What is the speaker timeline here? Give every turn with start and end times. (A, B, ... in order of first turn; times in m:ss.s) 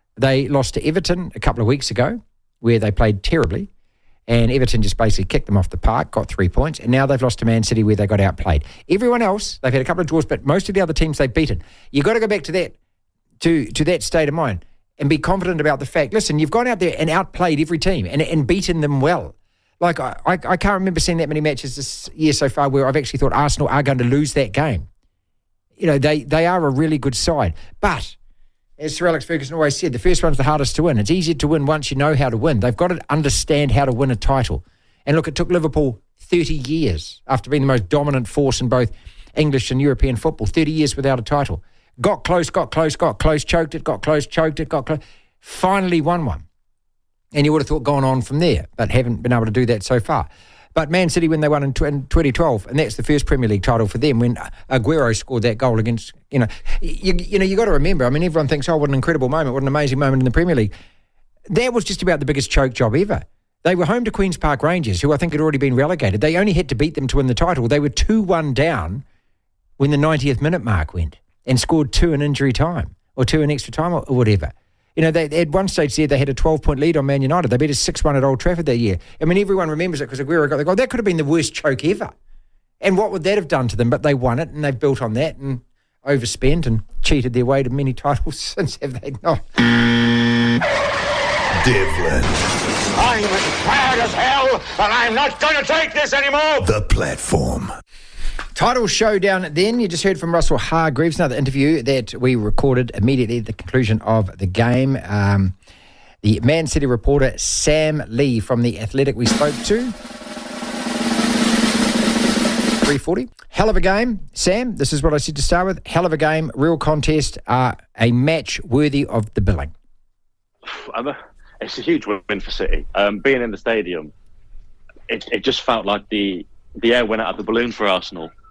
0:00.2-0:03.7 A
0:04.3-0:12.7 A
0:13.4-0:24.9 A
0:25.8-0:28.2 A
0:28.8-0:46.4 A
0:47.3-1:00.7 A
1:01.5-1:09.0 A
1:09.8-1:22.1 A
1:22.8-1:29.4 A
1:31.6-1:32.4 B
1:33.1-1:34.4 C
1:36.0-1:36.6 C
1:36.6-1:37.7 B
1:38.6-1:45.5 A
1:46.2-1:49.9 A
1:52.8-1:59.7 A
2:00.6-2:04.1 D
2:05.1-2:08.3 D